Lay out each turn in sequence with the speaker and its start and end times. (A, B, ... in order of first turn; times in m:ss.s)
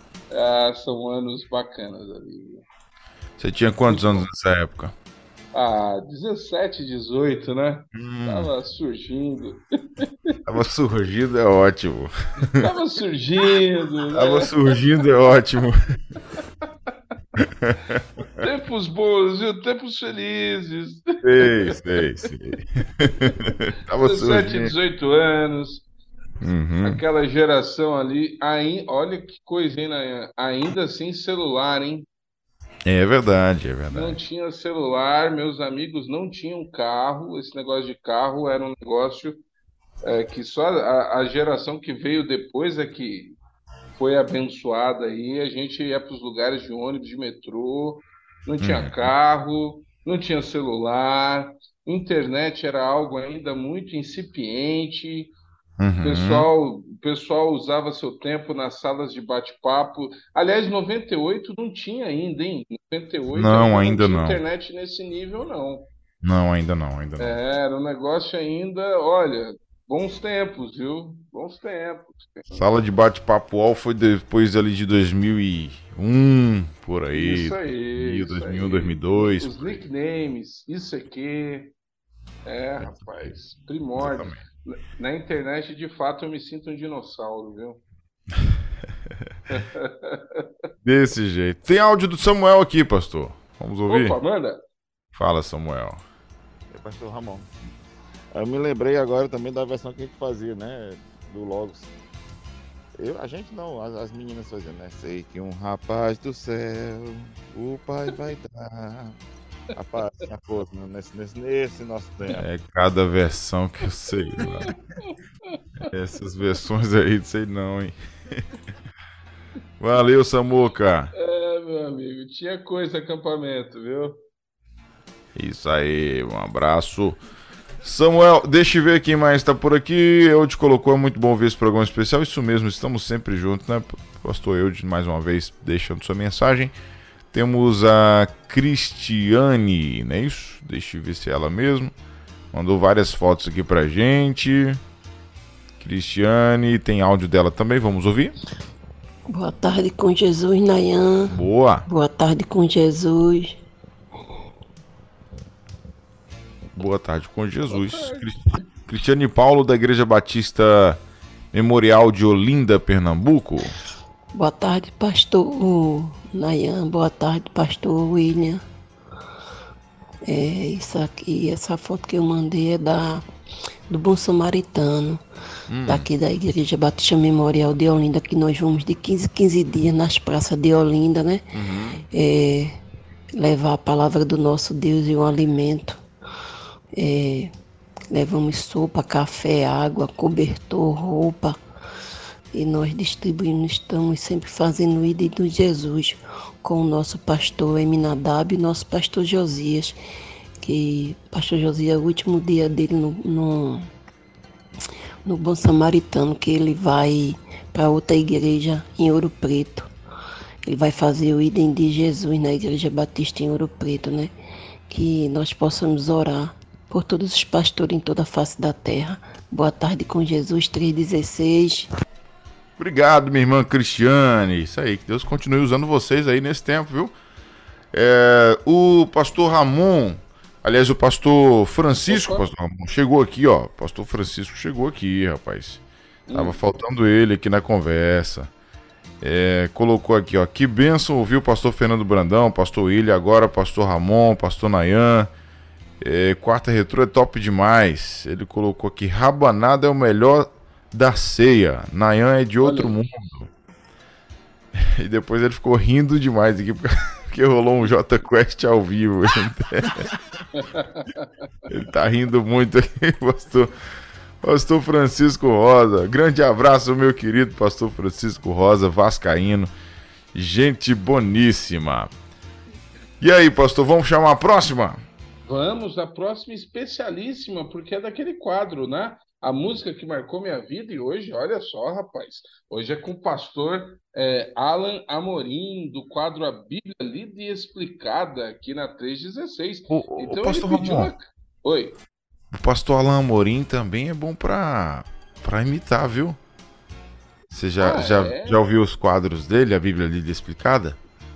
0:00.3-0:02.6 A
0:03.4-0:04.9 B
0:03.9-0:04.3 A
0:05.5-0:10.4 A
0:07.9-0:08.5 B
0:10.5-0:12.7 B
0:12.6-0:14.8 A
0:14.1-0:15.8 B
0:17.6-0:18.0 B
0:18.4-0:21.8 A
0:21.2-0:24.8 B
0:24.0-0:25.9 A
0:26.4-0:27.0 B
0:26.8-0:32.1 A
0:32.9-0:34.2 B
0:33.9-0:39.4 A
0:40.0-0:43.4 A
0:44.0-0:55.3 A
0:48.6-0:49.1 B
0:55.8-0:56.5 B
0:56.0-1:05.9 A
1:03.3-1:04.4 B
1:06.2-1:07.4 B
1:07.2-1:12.5 A
1:12.5-1:19.8 B
1:17.1-1:21.7 A
1:22.5-1:27.8 A
1:24.0-1:24.4 B
1:29.5-1:30.4 A
1:30.8-1:34.2 B
1:33.9-1:34.6 A
1:35.1-1:36.0 B
1:36.7-1:37.5 C
1:38.4-1:41.9 C
1:43.0-1:49.2 C
1:49.8-1:52.4 C
1:52.4-1:54.7 B
1:54.4-1:55.6 A
1:55.8-1:58.0 B
1:59.8-2:01.1 B
2:01.1-2:04.2 A
2:05.4-2:07.2 B
2:07.8-2:16.7 B
2:17.3-2:21.9 B
2:22.5-2:24.8 B
2:25.8-2:28.4 B
2:29.3-2:33.6 D
2:31.3-2:31.8 B
2:36.8-2:41.0 B
2:37.7-2:38.6 A
2:41.5-2:43.7 B
2:44.4-2:48.6 D
2:50.3-2:53.2 D
2:53.9-2:55.2 D
2:55.7-2:56.0 B
2:55.9-3:01.4 D
3:01.5-3:02.0 B
3:02.1-3:02.8 D
3:03.4-3:06.0 D
3:07.0-3:07.5 D
3:08.1-3:11.6 D
3:12.5-3:20.0 D
3:20.6-3:23.9 D
3:25.3-3:29.9 D
3:30.7-3:34.3 D
3:34.9-3:41.9 D
3:42.8-3:47.1 B
3:47.9-3:55.8 B
3:52.1-3:52.5 A
3:56.3-3:56.6 A
3:56.3-3:58.5 B
3:59.2-4:05.3 B
4:06.0-4:13.5 B
4:12.6-4:13.0 A
4:14.8-4:20.0 B
4:20.5-4:21.3 A
4:21.7-4:23.7 B
4:24.4-4:29.7 B
4:30.3-4:32.1 B
4:33.2-4:35.0 B
4:35.4-4:52.0 A
4:49.9-4:51.1 B
4:52.5-4:56.4 B
4:57.5-5:01.0 B
4:57.8-4:58.6 A